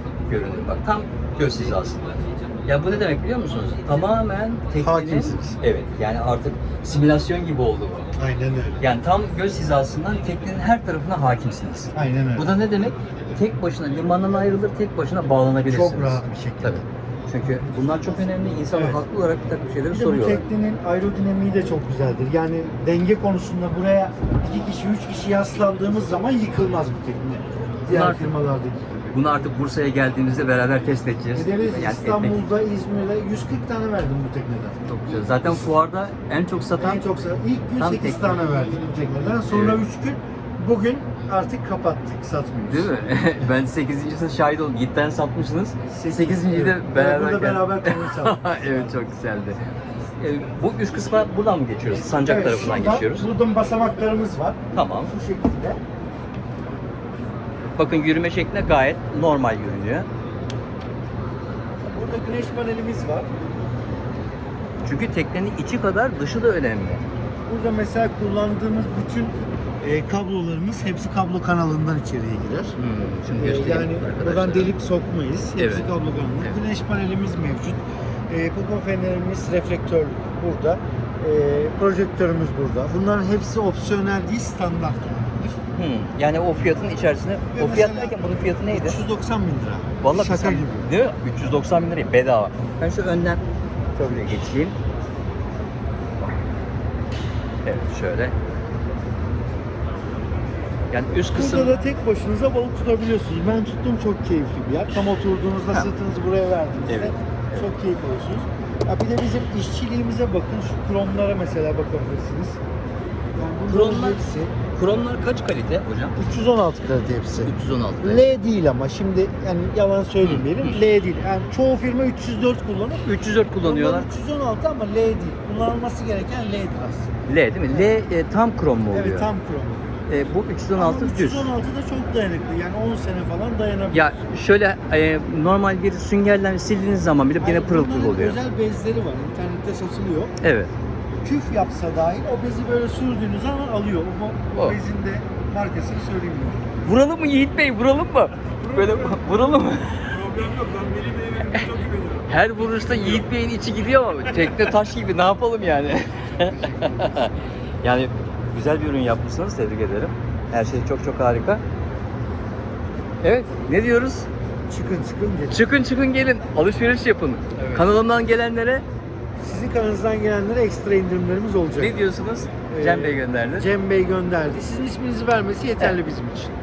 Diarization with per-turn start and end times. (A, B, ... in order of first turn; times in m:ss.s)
0:00.3-0:08.1 A
0:04.8-0:05.6 B
0:08.2-0:08.8 B
0:08.8-0:20.4 A
0:11.9-0:12.5 B
0:15.6-0:16.8 B
0:17.4-0:19.0 B
0:19.9-0:29.1 B
0:27.9-0:28.4 A
0:29.0-0:32.5 A
0:31.3-0:35.7 B
0:34.9-0:37.0 A
0:36.8-0:43.5 B
0:37.8-0:38.4 A
0:39.5-0:39.8 A
0:42.7-0:49.6 A
0:45.8-0:49.0 B
0:50.2-0:53.3 A
0:51.9-0:55.8 B
0:54.7-0:55.1 A
0:57.8-1:00.1 A
1:01.8-1:03.3 B
1:04.8-1:07.0 A
1:07.5-1:12.8 B
1:12.8-1:14.7 A
1:13.3-1:25.6 B
1:15.6-1:16.6 A
1:25.7-1:29.0 A
1:27.5-1:30.9 B
1:30.0-1:33.4 A
1:34.0-1:34.8 A
1:37.6-1:38.3 A
1:40.9-1:41.8 A
1:41.3-1:52.6 B
1:46.9-1:47.7 A
1:53.3-1:54.5 B
1:53.7-1:56.2 A
1:56.2-1:57.5 B
1:57.4-1:58.3 A
1:58.0-2:03.1 B
2:00.2-2:00.8 A
2:03.0-2:04.1 A
2:03.6-2:07.1 B
2:07.2-2:09.3 A
2:08.9-2:09.9 B
2:10.1-2:11.5 A
2:10.7-2:14.1 B
2:13.9-2:18.4 A
2:17.4-2:20.3 B
2:20.4-2:20.7 A
2:21.2-2:26.6 B
2:24.5-2:24.8 A
2:26.8-2:30.3 A
2:28.6-2:29.5 C
2:30.0-2:33.3 C
2:32.3-2:41.6 A
2:36.2-2:37.3 B
2:43.2-2:44.3 A
2:44.7-2:45.7 B
2:45.5-2:48.8 A
2:47.6-2:47.8 B
2:49.4-2:52.1 B
2:51.8-2:53.7 A
2:52.7-2:56.5 B